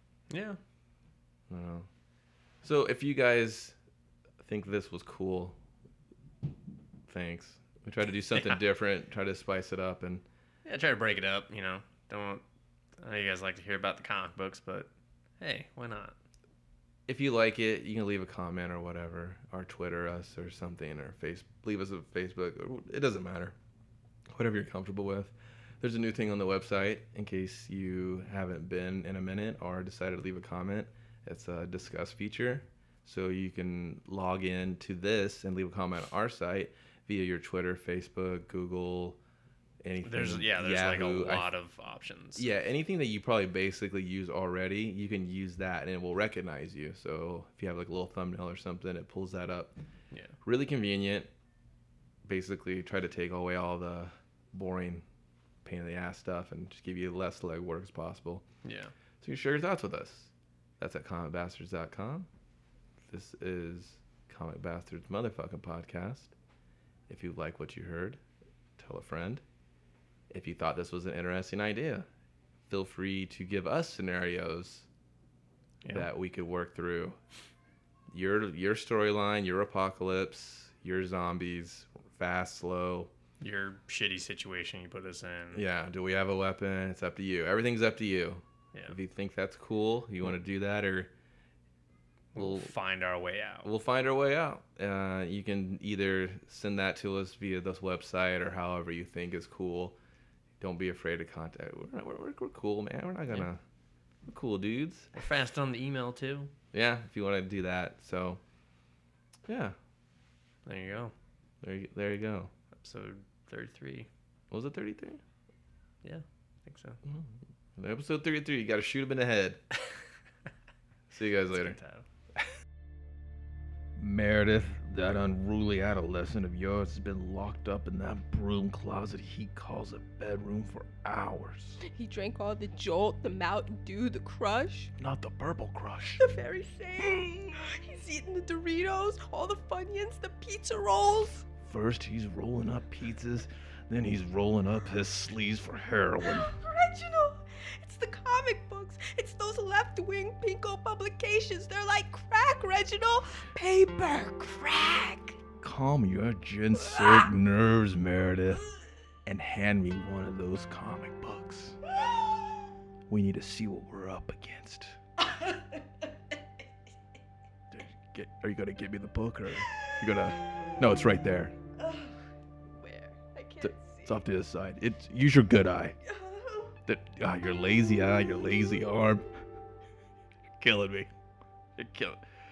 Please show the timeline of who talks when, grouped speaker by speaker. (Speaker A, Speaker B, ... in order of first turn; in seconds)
Speaker A: 0.3-0.6, 8.3-8.6, 10.7-12.4, 13.0-16.2, 40.0-42.5, 50.1-50.4, 58.6-58.9, 75.8-76.1, 83.4-85.6, 92.3-93.7, 105.2-106.5, 110.7-111.1, 112.8-114.1, 116.0-117.0, 121.5-122.1
Speaker B: 1.5-1.9, 2.6-3.8, 4.4-5.6, 7.1-10.2, 17.1-23.6, 24.3-39.2, 39.8-41.5, 42.4-49.7, 50.4-51.3, 52.2-55.0, 55.6-58.4, 59.2-62.3, 63.1-66.3, 67.1-68.2, 68.8-69.4, 70.3-72.1, 72.7-74.9, 75.9-77.2, 78.1-83.1, 85.5-91.1, 92.3-92.7, 93.6-100.0, 100.6-103.6, 104.3-105.1, 106.7-108.4, 109.5-109.8, 111.6-112.5, 114.5-115.2, 117.0-119.6, 121.1-121.8, 124.0-131.8, 135.0-136.2, 141.6-146.5, 155.6-158.7, 159.3-161.8, 163.1-165.0, 167.7-171.6, 173.6-176.0, 176.9-179.3, 180.6-181.1, 181.8-182.2
Speaker C: 131.8-134.9, 136.2-141.5, 146.2-155.4, 156.8-157.3, 162.0-162.3, 165.4-165.6, 171.8-172.2, 172.7-174.2, 176.0-176.8